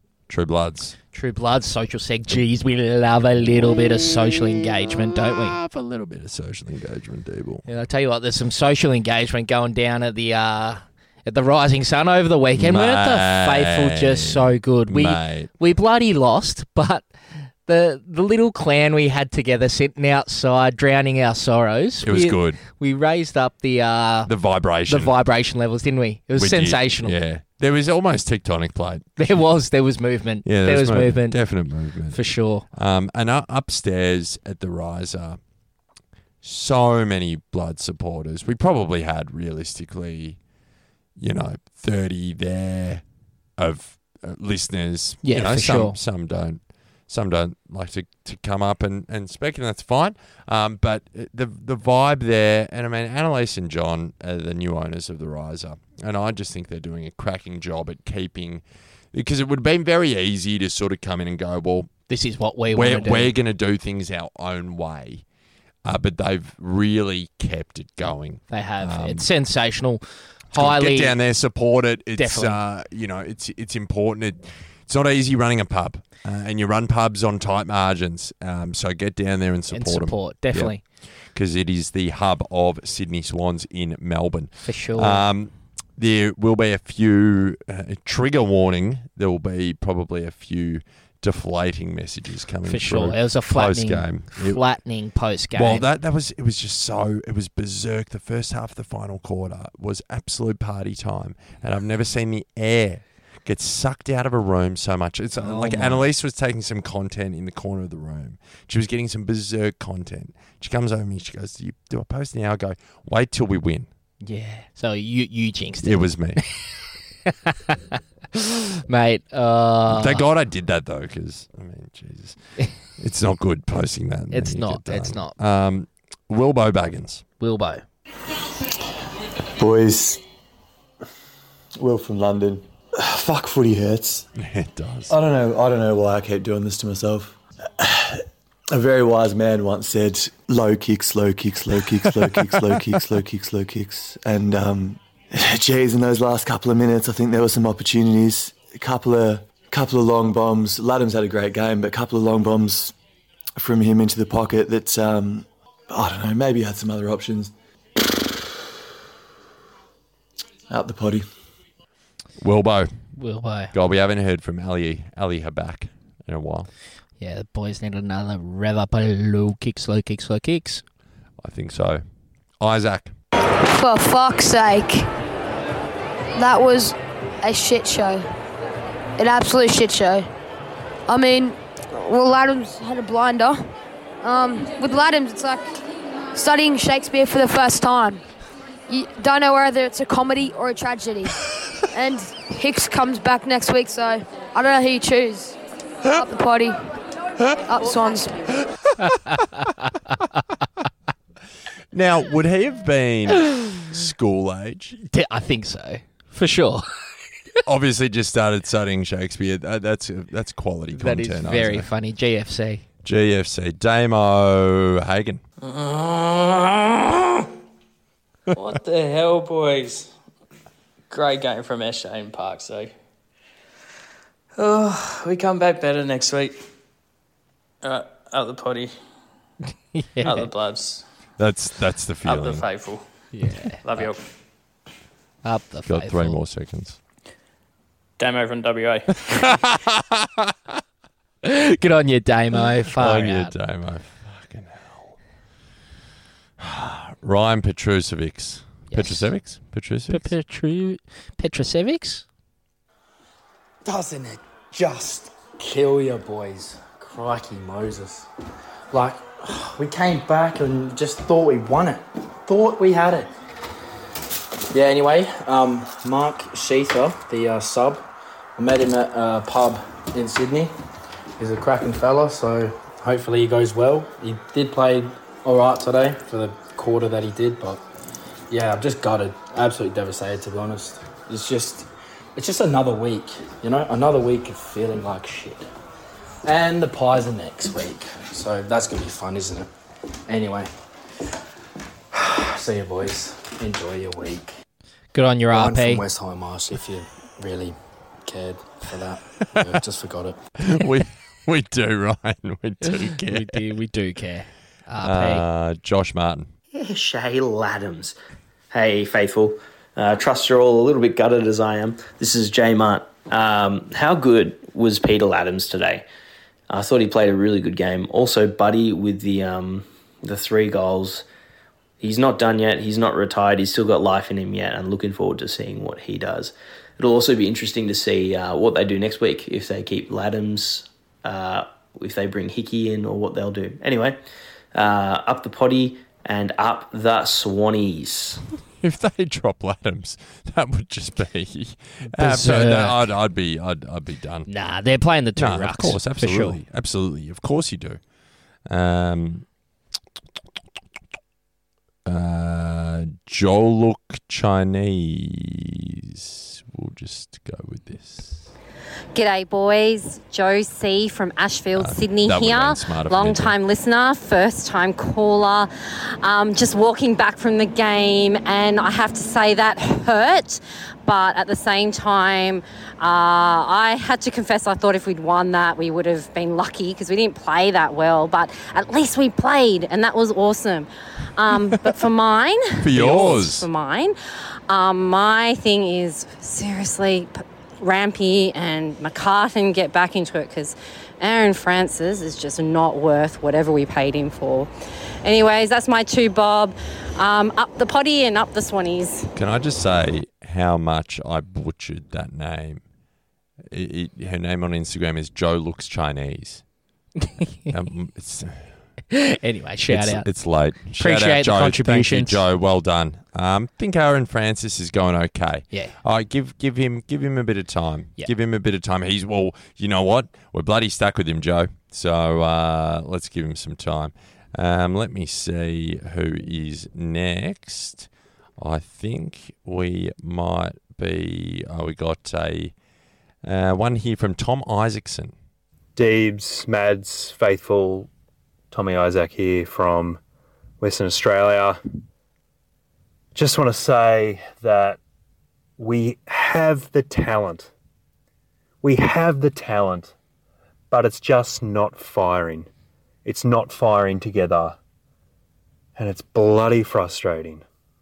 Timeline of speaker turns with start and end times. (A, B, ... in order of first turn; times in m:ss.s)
0:00.3-0:01.0 A
0:01.1-0:05.6 B
0:04.0-0:07.7 A
0:07.7-0:17.1 B
0:12.6-0:15.5 A
0:17.7-0:24.3 B
0:22.0-0:22.6 A
0:24.3-0:25.1 A
0:24.9-0:27.2 B
0:26.4-0:29.3 A
0:29.2-0:31.4 B
0:30.4-0:32.2 A
0:32.1-0:32.6 B
0:32.7-0:35.4 A
0:36.4-0:40.4 A
0:41.2-0:43.0 A
0:43.6-1:01.9 A
0:45.2-0:46.0 B
1:02.1-1:03.3 B
1:02.7-1:05.2 A
1:05.8-1:09.3 A
1:08.5-1:11.2 B
1:10.5-1:20.8 A
1:12.2-1:12.6 B
1:19.7-1:20.8 B
1:21.3-1:34.6 A
1:24.6-1:25.2 B
1:32.7-1:35.8 B
1:35.5-1:53.9 A
1:45.4-1:46.0 B
1:54.2-1:56.0 B
1:55.8-1:56.4 A
1:57.3-2:00.2 B
1:59.9-2:02.4 A
2:03.0-2:07.2 A
2:04.3-2:05.3 B
2:07.4-2:07.8 B
2:09.6-2:10.2 C
2:11.8-2:14.3 C
2:14.4-2:15.1 A
2:15.1-2:33.0 C
2:33.6-2:37.5 C
2:40.7-2:41.3 C
2:42.4-2:42.9 A
2:43.2-2:43.7 B
2:43.7-2:46.7 A
2:47.2-2:50.8 B
2:51.4-2:52.0 A
2:52.6-2:53.1 A
2:53.6-2:55.1 D
2:56.4-2:58.3 D
2:59.2-3:00.3 D
3:01.1-3:03.7 D
3:04.2-3:05.7 D
3:06.3-3:08.2 D
3:08.9-3:11.4 D
3:11.9-3:16.8 D
3:17.7-3:18.6 D
3:19.0-3:19.9 B
3:21.9-3:25.0 A
3:25.1-3:26.9 B
3:27.6-3:31.9 A
3:30.9-3:32.8 B
3:33.0-3:35.4 A
3:35.6-3:37.4 E
3:38.5-3:40.1 E
3:41.1-3:42.9 E
3:44.6-3:46.6 E
3:47.8-3:48.9 E
3:50.0-3:50.4 B
3:50.2-3:51.0 E
3:51.4-3:52.7 A
3:52.2-3:53.0 E
3:53.3-3:53.8 B
3:53.7-3:54.2 E
3:55.4-3:56.4 B
3:55.9-3:57.0 A
3:58.2-3:59.4 E
3:59.3-4:00.5 A
4:01.4-4:03.5 B
4:03.0-4:05.2 A
4:06.6-4:10.3 A
4:08.9-4:09.3 B
4:10.1-4:12.2 B
4:13.8-4:18.3 F
4:18.9-4:23.3 F
4:24.7-4:28.0 F
4:28.6-4:30.8 F
4:31.4-4:37.8 F
4:38.5-4:45.7 F
4:46.4-4:49.7 F
4:50.3-4:50.7 F
4:52.1-4:54.5 F
4:55.1-4:56.0 B
4:55.5-5:00.4 F
5:00.6-5:03.7 A
5:02.8-5:05.4 B
5:05.0-5:06.5 A
5:06.7-5:08.2 G
5:08.7-5:16.1 G
5:16.7-5:21.3 G
5:22.0-5:34.2 G
5:34.7-5:38.4 G
5:38.8-5:44.5 A
5:42.2-5:43.0 B
5:44.5-5:46.6 B
5:45.4-5:48.0 A
5:48.7-5:49.5 A
5:52.0-5:58.5 A
5:59.2-6:05.7 H
6:01.8-6:03.6 A
6:06.2-6:24.2 H
6:22.8-6:23.7 A
6:24.7-6:34.7 H
6:35.2-6:39.3 H
6:39.4-6:42.8 A
6:43.7-6:46.6 A
6:47.2-6:47.7 B
6:47.7-6:48.6 A
6:49.1-6:50.3 B
6:49.9-7:12.7 A
6:51.0-6:52.4 B
7:13.4-7:15.3 A
7:16.0-7:18.1 I
7:18.7-7:20.2 I
7:20.8-7:21.8 I
7:23.4-7:25.0 I
7:25.8-7:27.7 I
7:28.8-7:30.1 I
7:30.9-7:32.7 I
7:33.2-7:34.8 I
7:36.0-7:37.6 I